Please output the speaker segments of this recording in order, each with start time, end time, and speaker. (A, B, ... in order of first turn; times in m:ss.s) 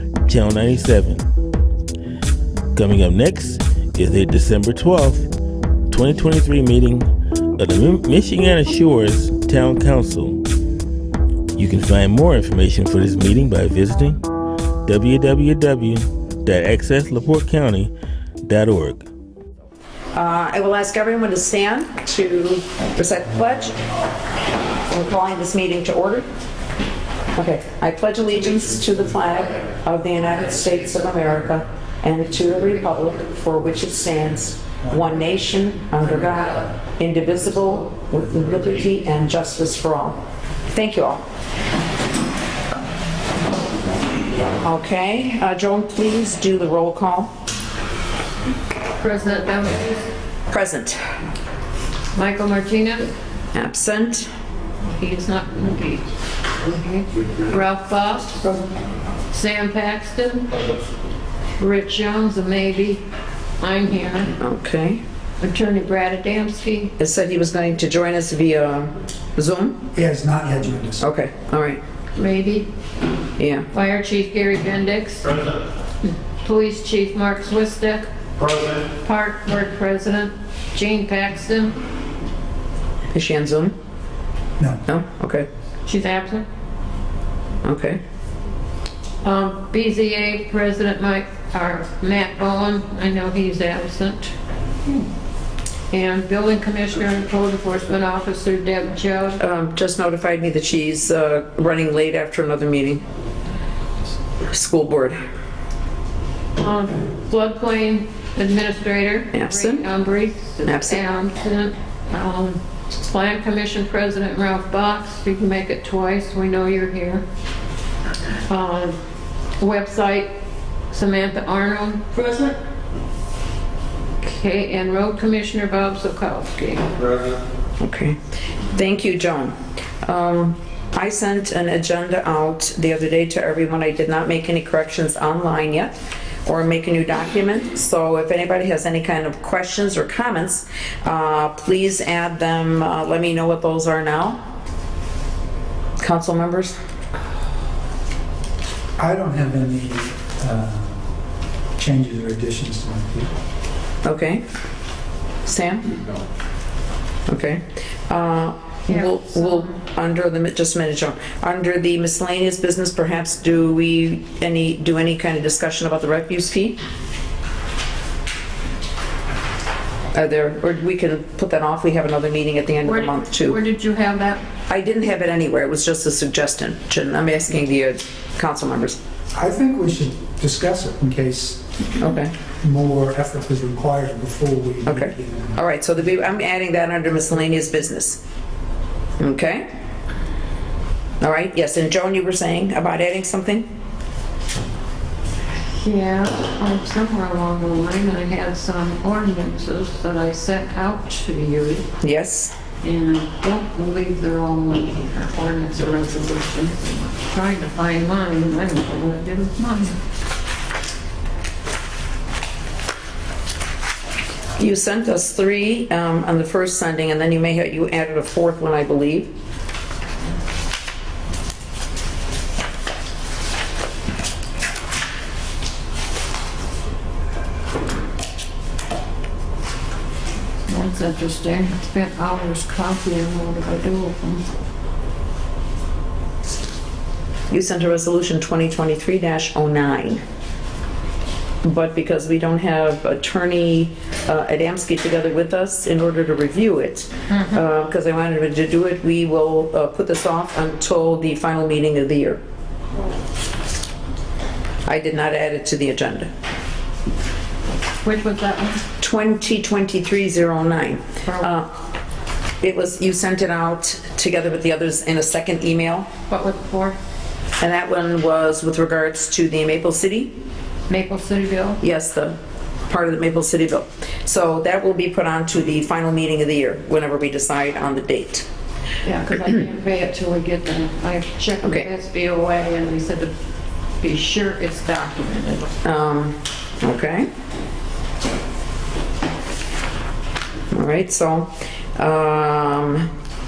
0:00.2-0:01.2 A
0:02.7-0:05.3 A
0:05.9-0:10.4 A
0:11.6-0:14.2 A
0:14.8-0:17.9 A
0:18.4-0:19.0 A
0:20.1-0:23.8 B
0:24.9-0:26.2 B
0:27.4-0:41.2 B
0:44.6-0:47.3 B
0:49.0-0:50.1 C
0:50.5-0:51.0 B
0:52.1-0:53.1 C
0:53.5-0:54.3 B
0:54.8-0:56.0 C
0:56.6-0:58.7 C
0:59.3-1:00.5 C
1:01.6-1:03.0 C
1:03.6-1:04.3 C
1:04.4-1:05.0 B
1:05.4-1:06.9 C
1:07.0-1:09.8 B
1:09.9-1:11.1 D
1:11.0-1:11.8 B
1:12.1-1:12.7 C
1:13.4-1:13.6 B
1:13.7-1:15.4 C
1:16.4-1:18.1 C
1:18.9-1:21.8 C
1:23.1-1:23.7 B
1:24.6-1:24.8 D
1:24.8-1:25.5 B
1:25.8-1:26.4 C
1:27.6-1:28.0 B
1:29.2-1:34.3 C
1:35.9-1:39.4 C
1:39.4-1:43.0 B
1:44.5-1:45.2 B
1:46.6-1:57.2 C
1:49.3-1:49.8 B
1:50.6-1:51.0 B
1:58.5-1:59.0 C
1:59.6-2:00.3 C
2:00.9-2:02.5 C
2:04.2-2:07.0 C
2:07.8-2:08.2 B
2:08.7-2:15.9 B
2:16.4-2:24.4 B
2:26.0-2:26.7 B
2:29.0-2:31.1 D
2:31.8-2:33.4 D
2:34.0-2:34.4 B
2:35.4-2:35.9 B
2:37.3-2:46.8 B
2:38.9-2:39.7 C
2:50.1-2:53.6 B
2:52.8-2:54.4 C
2:54.7-2:59.0 B
2:59.3-3:01.6 D
3:02.0-3:02.4 B
3:02.6-3:05.6 D
3:04.8-3:08.2 B
3:09.2-3:09.6 B
3:11.2-3:13.6 B
3:15.6-3:21.9 C
3:22.0-3:22.5 B
3:22.8-3:30.0 C
3:34.6-3:39.3 B
3:50.6-3:54.4 C
3:57.5-4:00.2 B
4:01.6-4:12.4 B
4:14.8-4:16.3 B
4:18.0-4:18.8 C
4:19.0-4:21.7 B
4:22.6-4:26.1 B
4:26.3-4:27.0 C
4:27.6-4:30.3 B
4:30.9-4:31.8 C
4:31.8-4:32.4 B
4:32.9-4:38.4 B
4:39.0-4:43.3 C
4:41.6-4:41.9 B
4:44.0-4:45.7 C
4:45.8-4:47.3 B
4:50.7-4:53.1 B